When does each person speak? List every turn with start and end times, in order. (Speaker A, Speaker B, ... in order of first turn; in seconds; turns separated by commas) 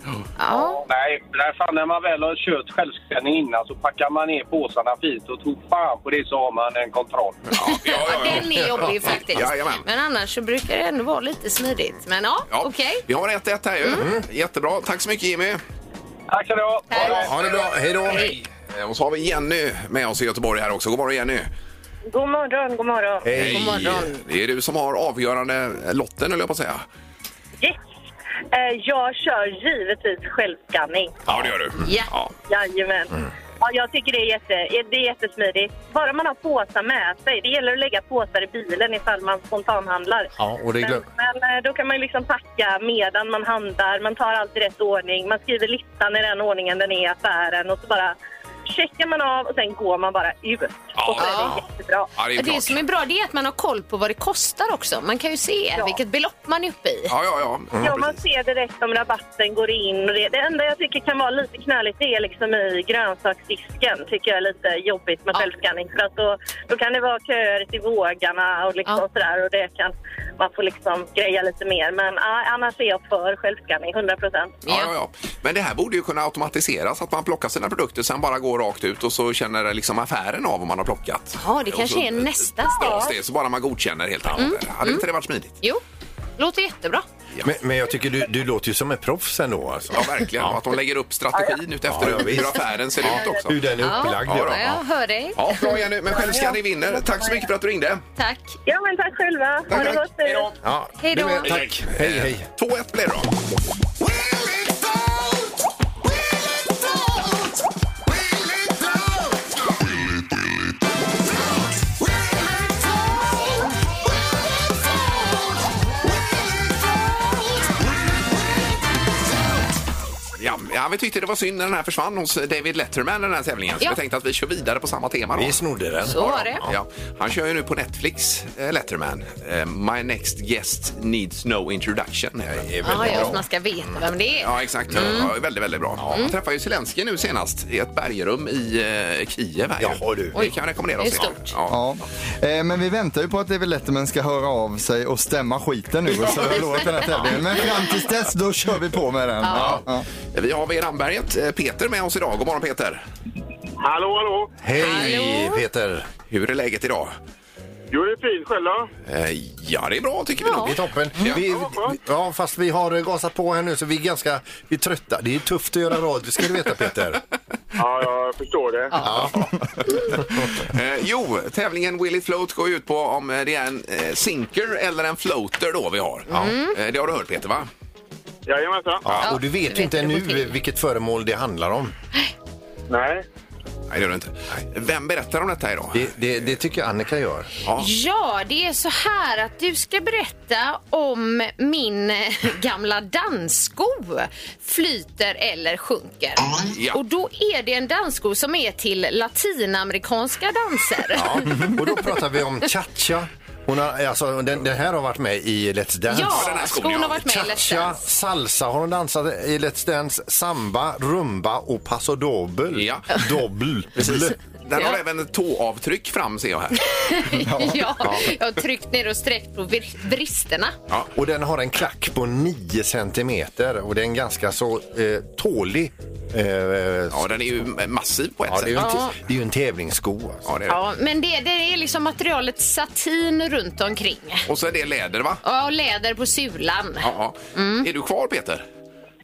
Speaker A: 0.4-0.8, Speaker B: 0.5-7.4, Speaker C: 7.5-9.8, Speaker A: 7.5-13.0, Speaker D: 8.4-9.2, Speaker C: 12.5-15.6, Speaker D: 13.9-14.2, Speaker B: 16.3-17.2, Speaker A: 16.9-17.4, Speaker D: 16.9-18.4, Speaker A: 18.1-18.4, Speaker C: 18.2-21.5, Speaker E: 22.1-23.2, Speaker D: 23.2-24.1, Speaker C: 23.3-26.8, Speaker A: 23.5-24.2, Speaker E: 28.5-31.1, Speaker D: 31.3-31.5, Speaker C: 31.3-32.3, Speaker A: 31.8-32.1, Speaker E: 32.5-48.1, Speaker D: 40.4-41.0, Speaker E: 48.7-52.1, Speaker C: 50.9-51.6, Speaker A: 51.2-51.6, Speaker C: 52.1-52.8, Speaker A: 52.3-57.1, Speaker C: 57.1-58.2, Speaker D: 57.7-58.0, Speaker E: 57.8-74.6, Speaker A: 74.7-74.9, Speaker C: 74.7-85.6, Speaker A: 81.4-83.1, Speaker A: 84.3-85.0, Speaker A: 86.4-87.0, Speaker D: 87.4-90.6, Speaker C: 89.9-93.5, Speaker D: 91.9-94.8, Speaker A: 93.8-95.8, Speaker C: 94.2-94.7, Speaker C: 95.3-98.0, Speaker E: 96.1-97.3, Speaker A: 98.2-98.5, Speaker E: 98.7-100.5, Speaker C: 99.7-100.5, Speaker D: 100.6-102.5, Speaker A: 101.0-101.6, Speaker C: 101.4-103.3, Speaker C: 120.4-125.6, Speaker D: 125.3-126.8, Speaker A: 126.1-126.6, Speaker C: 126.1-133.3, Speaker D: 132.5-134.0, Speaker A: 132.8-135.3, Speaker C: 134.4-141.8, Speaker D: 134.9-135.3, Speaker D: 136.0-136.2, Speaker D: 139.8-140.4, Speaker A: 140.3-141.5, Speaker F: 141.7-150.1, Speaker C: 146.2-146.8, Speaker A: 149.4-149.8, Speaker C: 149.5-149.8, Speaker C: 150.3-153.0, Speaker G: 153.8-154.5, Speaker D: 154.6-156.1, Speaker A: 154.8-155.6, Speaker C: 156.3-157.1, Speaker G: 157.9-158.9, Speaker C: 159.1-161.4, Speaker A: 160.4-160.7, Speaker D: 160.5-167.2, Speaker G: 161.4-161.9, Speaker G: 167.8-169.0, Speaker A: 168.9-169.3, Speaker D: 169.0-169.5, Speaker C: 170.6-177.7, Speaker A: 176.3-176.7, Speaker D: 176.3-176.6, Speaker G: 178.4-179.1, Speaker D: 179.0-181.9, Speaker A: 179.2-180.5, Speaker G: 182.9-183.2, Speaker C: 183.9-186.1, Speaker D: 185.9-187.5, Speaker A: 187.8-202.1, Speaker C: 196.7-197.0, Speaker D: 201.1-214.3, Speaker A: 206.1-208.0, Speaker C: 206.3-207.2, Speaker C: 212.7-213.1, Speaker C: 213.9-216.8, Speaker A: 216.8-220.8, Speaker F: 217.4-217.9, Speaker D: 218.0-218.3, Speaker D: 221.1-227.3, Speaker C: 227.1-229.0, Speaker D: 228.5-230.6, Speaker A: 228.8-229.1, Speaker C: 230.4-230.8, Speaker A: 230.7-234.5, Speaker C: 234.5-235.4, Speaker A: 235.4-237.9, Speaker C: 237.0-238.6